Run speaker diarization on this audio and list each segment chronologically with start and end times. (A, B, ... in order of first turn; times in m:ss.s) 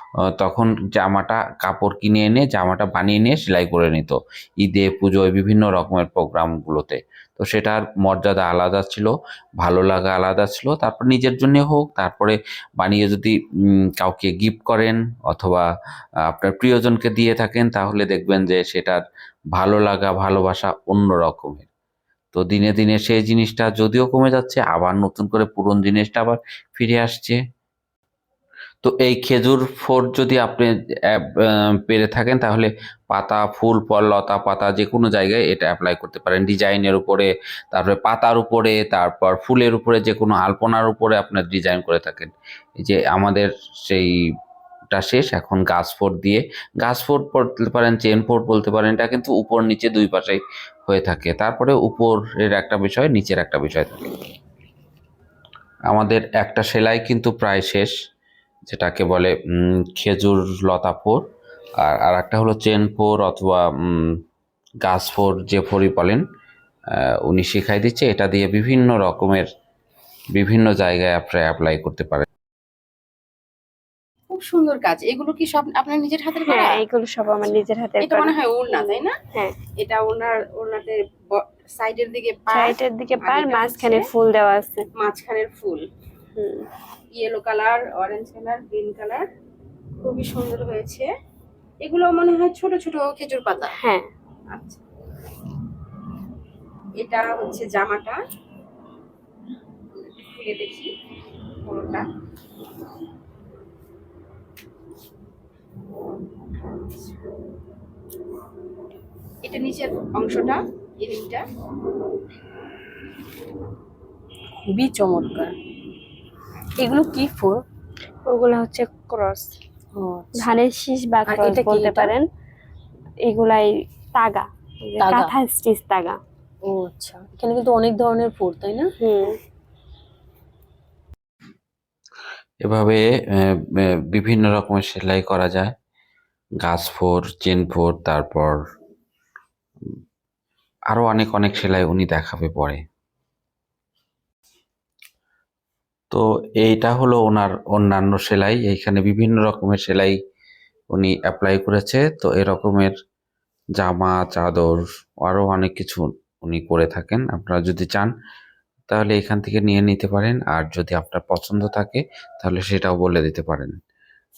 0:00.4-0:13.3 A
0:14.0-0:15.7 A
0:16.3-0:19.0 A
0:19.5-0:21.7 A
0:22.3-0:27.4 A
0:28.8-0:42.3 A
0:42.8-0:44.1 A
0:44.9-0:54.1 A
0:55.9-0:57.9 A
0:58.7-0:59.3 A
1:00.0-1:01.2 A
1:01.8-1:04.1 A
1:04.8-1:06.2 A
1:07.2-1:09.5 A
1:10.3-1:12.3 A
1:14.3-1:16.8 B
1:16.4-1:19.5 C
1:18.0-1:19.2 B
1:19.7-1:24.1 B
1:22.5-1:24.8 C
1:25.0-1:25.8 B
1:26.4-1:26.7 C
1:27.1-1:29.2 B
1:30.0-1:31.1 B
1:31.8-1:33.8 B
1:33.8-1:34.0 C
1:34.5-1:34.8 B
1:37.0-1:38.2 B
1:40.2-1:40.9 B
1:41.6-1:42.0 B
1:46.6-1:47.2 B
1:49.4-1:51.4 B
1:54.6-1:55.5 D
1:56.8-1:57.6 D
1:58.3-1:59.5 C
1:59.9-2:00.6 D
2:00.4-2:02.2 C
2:01.3-2:02.1 D
2:03.2-2:06.2 C
2:05.0-2:05.3 D
2:06.6-2:08.9 D
2:09.0-2:09.4 C
2:12.6-2:15.7 A
2:16.6-2:18.6 A
2:20.9-2:22.8 A
2:26.1-2:30.2 A
2:30.9-2:32.9 A
2:33.8-2:38.1 A
2:38.9-2:43.7 A